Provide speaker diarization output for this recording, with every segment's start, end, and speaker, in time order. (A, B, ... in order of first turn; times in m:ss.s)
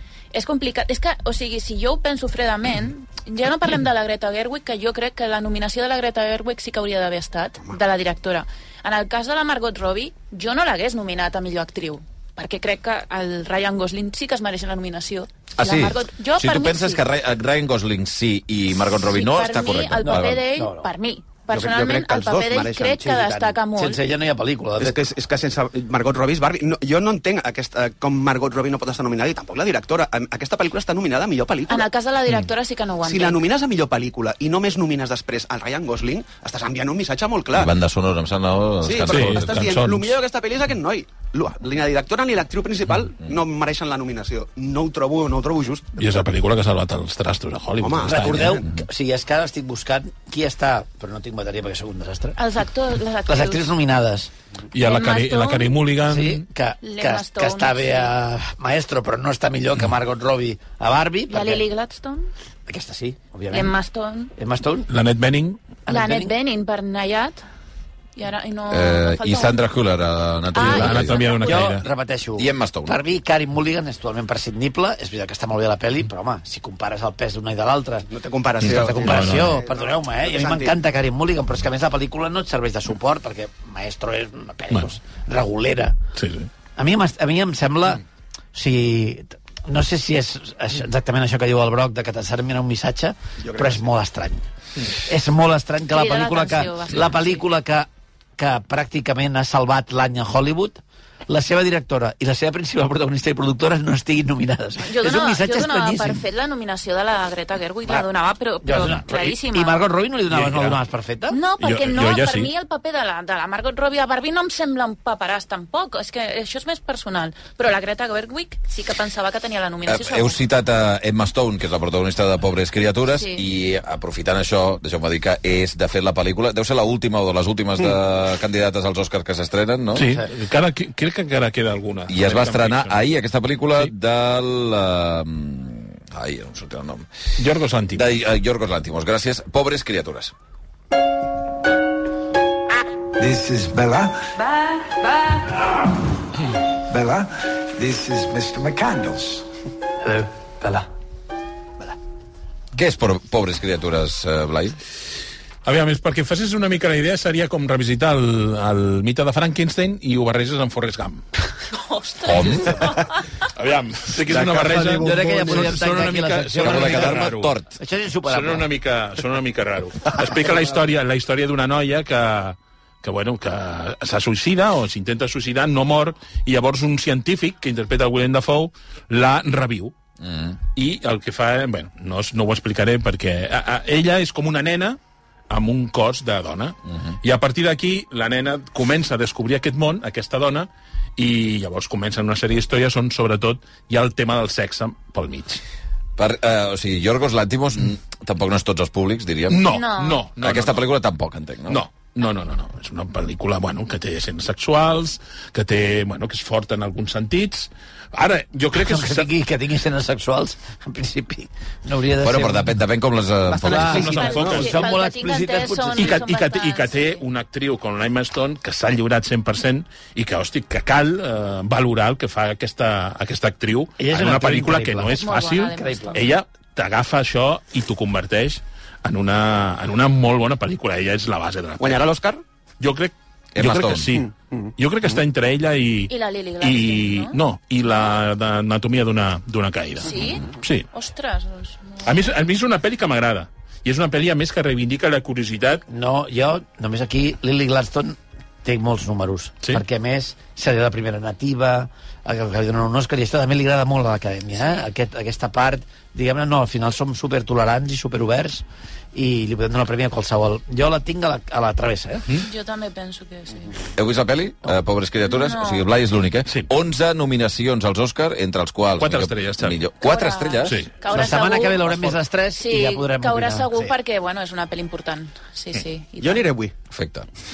0:00.3-0:17.0 A
0:15.6-0:20.5 B
0:19.0-0:24.0 A
0:20.0-0:20.9 C
0:21.5-0:23.1 D
0:23.1-0:25.1 C
0:24.8-0:31.9 D
0:31.7-0:33.4 A
0:33.0-0:37.7 D
0:37.5-0:39.8 B
0:38.8-0:46.1 D
0:39.1-0:40.2 E
0:46.0-0:48.6 E
0:47.8-0:48.7 D
0:48.0-0:52.4 C
0:52.4-0:53.7 A
0:53.3-0:54.3 C
0:54.7-0:56.4 E
0:54.8-0:55.8 A
0:56.1-1:01.6 C
0:56.8-0:58.1 A
1:01.3-1:02.3 A
1:02.7-1:03.7 C
1:03.5-1:04.3 A
1:04.3-1:04.9 C
1:04.9-1:05.7 E
1:05.9-1:06.3 C
1:05.9-1:07.4 A
1:08.2-1:09.6 A
1:08.7-1:11.3 B
1:10.5-1:11.8 A
1:10.6-1:11.8 E
1:11.4-1:18.1 C
1:12.4-1:13.0 B
1:18.1-1:20.8 D
1:18.6-1:19.6 E
1:18.6-1:26.0 C
1:26.2-1:26.5 E
1:26.8-1:28.0 C
1:28.5-1:46.2 C
1:33.4-1:33.8 D
1:35.9-1:37.4 A
1:44.9-1:49.9 A
1:48.6-1:51.4 C
1:50.3-1:50.8 E
1:51.3-2:00.4 A
1:51.6-1:52.5 E
1:59.8-2:10.1 B
2:03.1-2:03.4 A
2:09.9-2:13.0 E
2:12.1-2:17.1 B
2:17.4-2:18.1 E
2:17.9-2:20.3 B
2:23.2-2:24.2 F
2:26.9-2:29.4 F
2:30.1-2:30.8 C
2:32.7-2:34.8 B
2:35.6-2:41.2 E
2:41.7-2:43.2 A
2:42.3-2:42.9 E
2:43.6-2:47.6 E
2:44.4-2:45.2 D
2:44.8-2:47.2 C
2:46.6-2:47.8 B
2:47.8-2:48.7 C
2:48.3-2:59.9 E
3:00.2-3:00.6 B
3:00.7-3:05.0 E
3:05.5-3:15.6 E
3:16.2-3:19.7 B
3:19.5-3:20.9 E
3:19.6-3:20.3 A
3:20.4-3:21.8 B
3:21.7-3:29.3 E
3:28.7-3:32.7 C
3:32.2-3:34.2 B
3:33.4-3:34.8 D
3:33.6-3:34.8 E
3:33.7-3:36.2 C
3:34.0-3:37.2 A
3:36.0-3:52.1 E
3:44.0-3:45.2 C
3:45.1-3:46.3 A
3:45.7-3:46.3 C
3:51.8-3:52.4 D
3:52.8-4:00.9 E
3:53.5-3:54.2 B
3:56.1-3:57.4 A
4:00.0-4:02.2 A
4:00.1-4:00.4 B
4:02.0-4:05.8 E
4:05.9-4:22.2 C
4:14.6-4:14.8 A
4:22.4-4:23.8 A
4:24.0-4:30.8 B
4:25.2-4:25.8 A
4:29.0-4:29.8 E
4:30.0-4:31.9 A
4:30.6-4:32.1 E
4:31.1-4:33.7 C
4:32.5-4:36.5 A
4:36.2-4:36.7 D
4:36.9-4:37.3 B